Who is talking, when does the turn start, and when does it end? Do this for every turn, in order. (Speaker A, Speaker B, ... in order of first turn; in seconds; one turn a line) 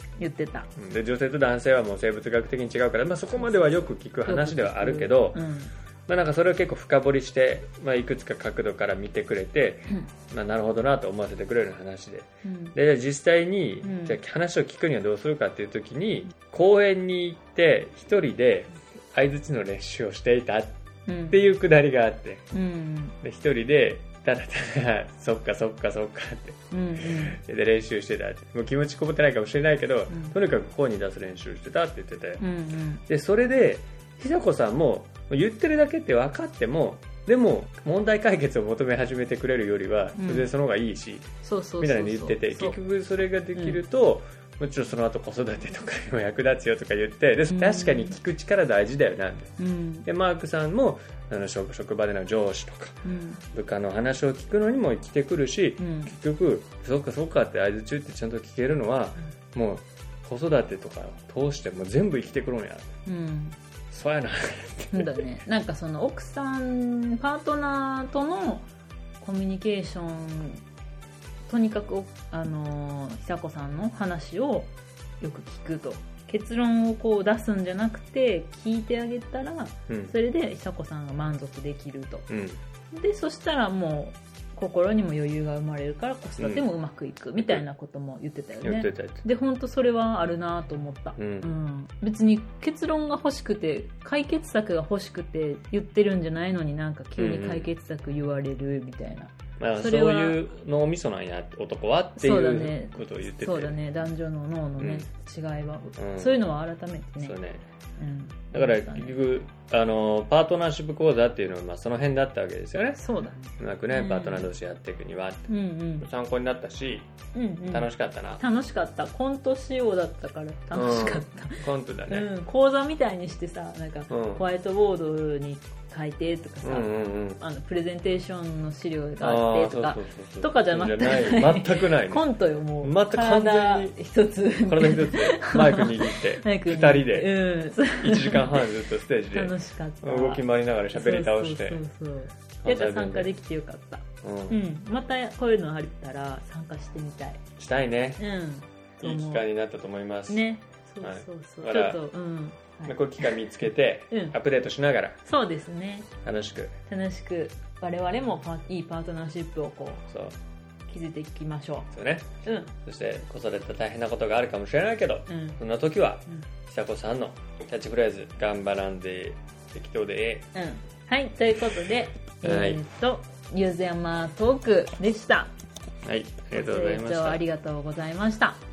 Speaker A: 0.2-0.7
Speaker B: 0.8-5.4
Speaker A: 3.4-5.7
Speaker B: 6.1-20.8
Speaker A: 12.4-12.8
Speaker A: 13.8-14.2
Speaker A: 21.1-21.4
Speaker B: 21.3-22.4
Speaker A: 22.5-23.1
Speaker B: 23.2-32.4
Speaker A: 26.7-27.4
Speaker A: 30.1-30.3
Speaker A: 32.4-33.0
Speaker B: 33.1-41.3
Speaker A: 40.1-40.5
Speaker A: 41.4-42.8
Speaker B: 41.8-53.0
Speaker A: 47.5-48.2
Speaker A: 49.6-50.1
Speaker A: 53.0-53.4
Speaker B: 53.5-62.9
Speaker A: 55.8-56.1
Speaker A: 63.1-63.6
Speaker B: 63.9-65.2
Speaker A: 64.9-68.7
Speaker A: 69.2-70.6
Speaker A: 71.5-82.3
Speaker B: 79.9-80.1
Speaker B: 82.3-82.6
Speaker A: 82.9-100.4
Speaker B: 86.4-86.6
Speaker B: 87.4-87.6
Speaker B: 88.6-89.2
Speaker B: 91.2-91.5
Speaker B: 97.2-97.7
Speaker B: 99.6-103.8
Speaker A: 102.2-107.4
Speaker B: 104.8-105.1
Speaker B: 106.0-106.4
Speaker B: 107.2-107.6
Speaker A: 108.0-109.2
Speaker B: 108.5-113.0
Speaker A: 113.0-114.5
Speaker B: 113.6-117.1
Speaker A: 115.5-116.1
Speaker A: 117.3-138.6
Speaker B: 117.7-118.4
Speaker B: 120.7-122.3
Speaker B: 124.1-124.4
Speaker B: 126.6-127.4
Speaker B: 129.2-132.2
Speaker B: 132.8-133.9
Speaker B: 134.6-137.3
Speaker B: 137.9-141.8
Speaker A: 139.3-147.4
Speaker B: 142.6-143.3
Speaker B: 144.2-144.6
Speaker B: 147.6-148.2
Speaker A: 148.2-149.4
Speaker B: 149.0-150.4
Speaker A: 150.3-153.3
Speaker B: 151.0-152.0
Speaker B: 152.9-155.2
Speaker A: 155.2-156.1
Speaker B: 156.2-156.8
Speaker A: 156.9-160.1
Speaker B: 160.1-160.3
Speaker A: 160.9-161.9
Speaker B: 161.9-162.3
Speaker A: 162.4-162.7
Speaker B: 162.8-170.5
Speaker A: 165.3-165.6
Speaker A: 170.5-175.5
Speaker B: 172.4-172.8
Speaker B: 176.0-177.4
Speaker A: 176.5-178.6